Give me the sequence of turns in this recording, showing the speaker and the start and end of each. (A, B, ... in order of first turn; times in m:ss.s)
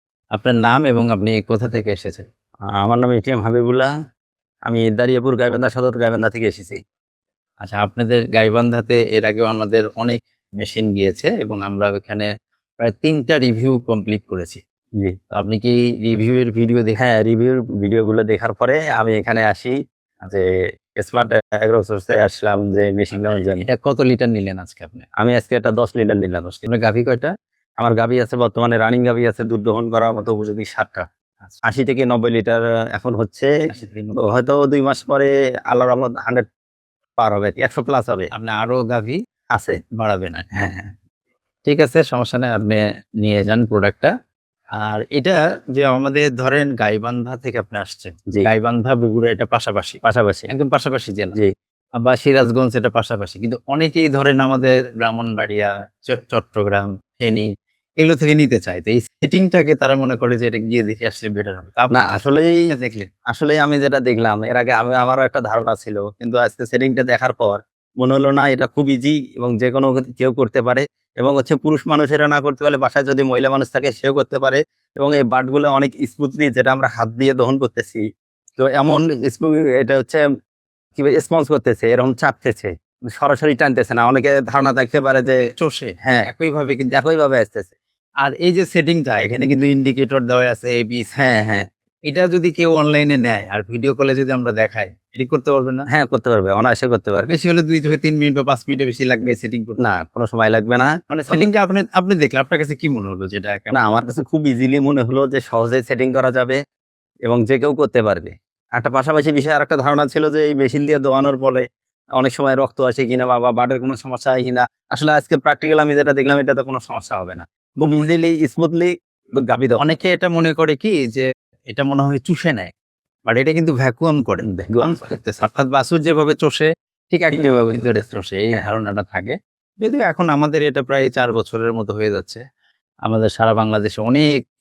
0:00.3-0:02.2 A
0:02.7-0:03.9 B
0:04.7-0:06.8 B
0:07.6-0:12.3 A
0:12.8-0:14.6 A
0:15.3-0:17.0 A
0:17.0-0:20.4 B
0:20.9-0:23.6 B
0:23.7-0:25.0 A
0:25.2-0:26.6 B
0:26.6-0:27.3 A
0:27.8-0:31.0 B
0:31.6-0:33.5 B
0:33.7-0:34.1 A
0:34.1-0:36.4 B
0:37.2-0:38.3 B
0:38.3-0:39.2 A
0:39.9-0:40.8 A
0:41.6-0:44.1 A
0:44.8-0:51.3 A
0:50.0-0:50.5 B
0:52.0-1:02.1 A
1:01.9-1:02.7 B
1:02.7-1:03.1 A
1:03.3-1:18.0 B
1:18.6-1:20.2 B
1:21.0-1:25.4 B
1:25.6-1:26.6 A
1:26.0-1:27.7 B
1:28.2-1:31.1 A
1:31.2-1:31.6 B
1:32.1-1:35.9 A
1:35.9-1:37.2 B
1:37.2-1:39.8 A
1:39.8-1:41.4 B
1:41.1-1:43.7 A
1:43.7-1:46.6 B
1:47.2-1:51.6 B
1:52.2-1:59.8 B
1:59.8-2:02.7 A
2:03.3-2:12.4 A
2:04.5-2:04.8 B
2:13.1-2:14.3 A